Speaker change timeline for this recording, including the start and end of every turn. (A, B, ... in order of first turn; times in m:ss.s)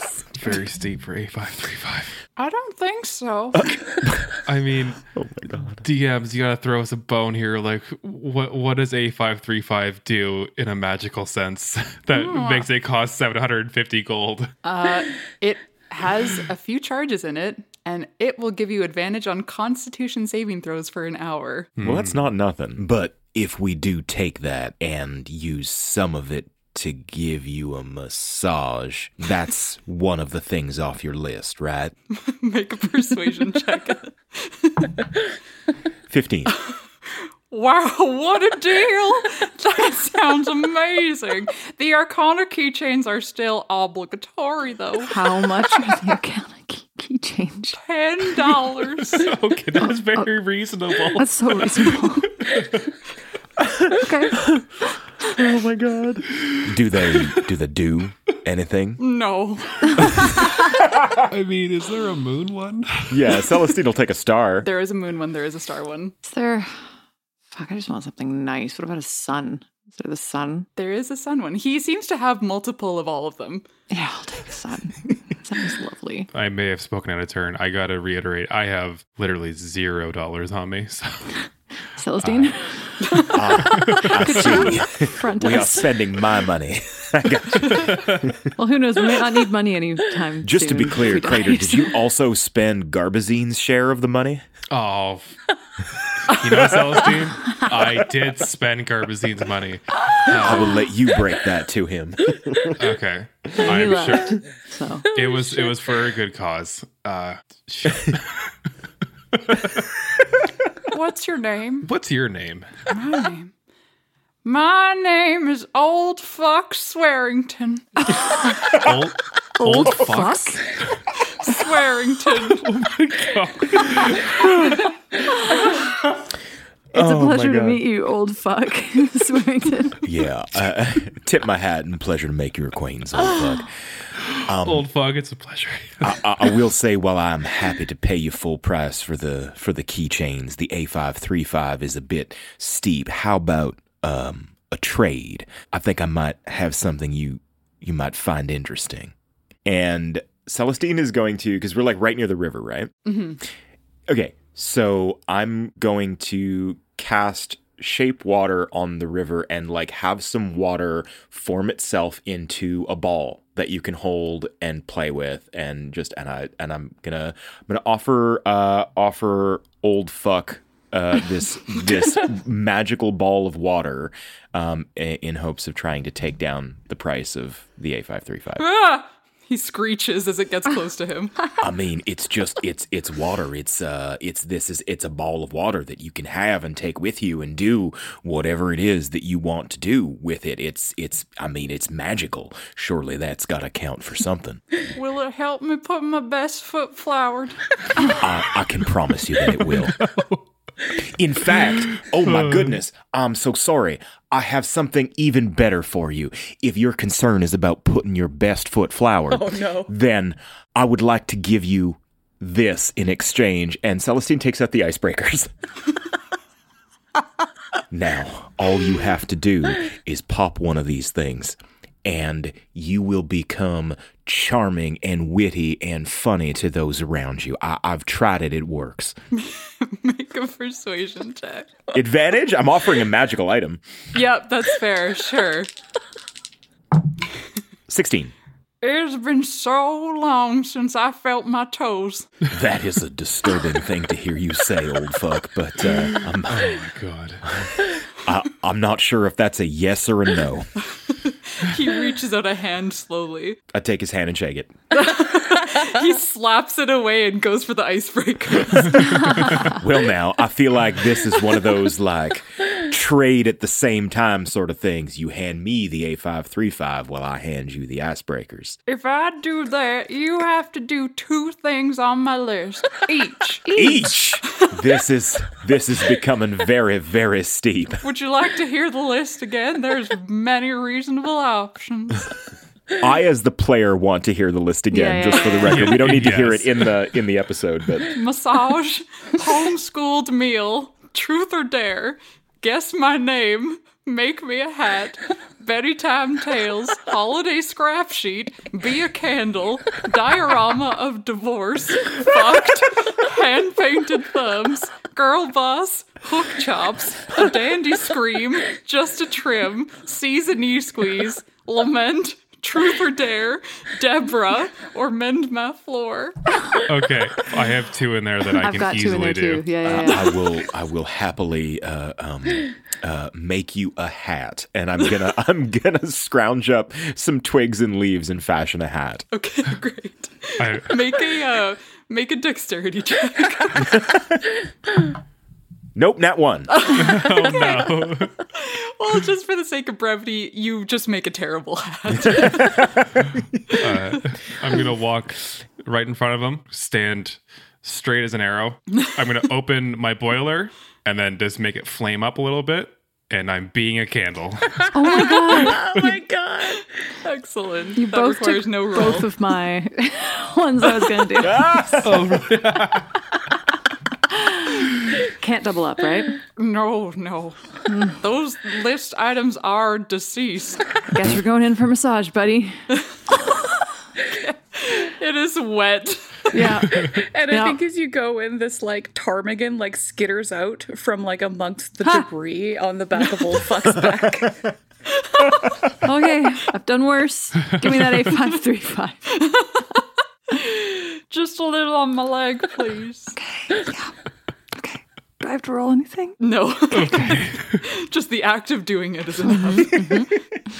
0:00.3-0:02.2 A
0:02.4-0:03.7 B
0:04.0-0:04.4 C
0:04.4-0:05.0 A
0:05.1-0:05.8 C
0:05.8-0:14.5 A
0:12.1-0:12.7 B
0:14.6-0:21.8 B
0:21.8-0:22.2 A
0:21.8-0:31.9 C
0:32.1-0:35.0 B
0:36.1-0:36.6 C
0:36.5-0:45.2 B
0:45.0-0:47.8 D
0:47.7-0:49.3 B
0:49.0-0:52.9 A
0:49.8-0:50.3 D
0:51.1-0:52.4 D
0:53.9-0:54.5 D
0:55.2-0:59.0 C
0:56.4-0:57.3 A
0:59.0-1:00.4 B
1:01.2-1:03.5 A
1:03.1-1:04.7 C
1:04.6-1:06.1 B
1:06.2-1:06.8 D
1:07.5-1:10.7 D
1:10.8-1:13.6 B
1:13.9-1:16.3 D
1:16.3-1:21.3 A
1:22.0-1:26.0 D
1:22.2-1:22.5 A
1:23.3-1:28.3 C
1:23.8-1:24.1 A
1:27.7-1:28.2 A
1:28.6-1:32.0 D
1:30.4-1:34.4 C
1:34.7-1:35.4 A
1:36.3-1:40.8 A
1:40.3-1:42.8 C
1:42.8-1:44.4 A
1:43.6-1:45.1 D
1:45.1-1:48.5 A
1:49.5-1:49.8 A
1:50.9-1:51.9 B
1:51.8-1:52.7 A
1:52.9-1:53.5 B
1:54.4-1:57.9 B
1:58.6-2:00.8 A
1:59.6-2:00.7 D
2:01.3-2:02.7 B
2:02.5-2:04.8 A
2:06.9-2:07.8 C
2:06.9-2:10.0 D
2:10.0-2:13.7 C
2:14.3-2:16.5 A
2:14.4-2:14.9 C
2:16.0-2:29.1 C
2:29.6-2:33.0 C
2:33.0-2:33.4 B
2:34.1-2:58.7 C
2:58.6-3:01.5 B
3:01.6-3:14.6 C
3:14.9-3:18.1 B
3:18.1-3:20.1 C
3:19.8-3:20.4 A
3:20.9-3:35.5 C
3:22.0-3:22.8 A
3:29.3-3:29.9 E
3:37.9-3:49.2 C
3:49.3-3:51.7 B
3:51.9-3:53.8 C
3:54.1-3:55.7 B
3:57.9-3:58.3 C
3:58.8-4:02.3 B
4:02.5-4:06.8 C
4:06.0-4:07.6 A
4:07.4-4:10.7 C
4:11.1-4:13.6 B
4:13.7-4:14.8 C
4:14.9-4:19.7 B
4:19.5-4:28.8 C
4:28.9-4:34.7 B
4:33.7-4:38.1 C
4:38.0-4:42.3 B
4:43.0-4:48.2 C
4:44.9-4:46.0 D
4:45.6-4:47.0 A
4:48.1-5:16.4 B
5:16.8-5:19.7 A
5:18.6-5:20.3 D
5:19.8-5:29.2 C
5:29.3-5:34.0 B
5:30.6-5:31.0 A
5:33.8-5:34.4 C
5:35.9-5:36.9 C
5:36.7-5:37.8 B
5:36.9-5:38.4 A
5:38.5-5:42.8 B
5:42.2-5:43.1 C
5:43.8-5:54.9 A
5:54.9-5:55.9 D
5:55.4-5:56.8 E
5:57.2-5:59.3 B
5:58.0-6:02.0 D
6:01.4-6:02.2 C
6:02.0-6:03.2 A
6:04.3-6:06.4 D
6:06.6-6:10.8 B
6:07.8-6:08.2 D
6:11.1-6:12.8 D
6:13.3-6:16.6 B
6:16.5-6:17.8 D
6:16.7-6:24.6 E
6:25.1-6:25.7 B
6:26.0-6:29.4 D
6:29.4-6:29.9 B
6:30.5-6:33.4 B
6:33.4-6:34.1 D
6:34.7-6:37.2 D
6:36.4-6:40.3 B
6:37.0-6:37.8 A
6:39.6-6:40.3 D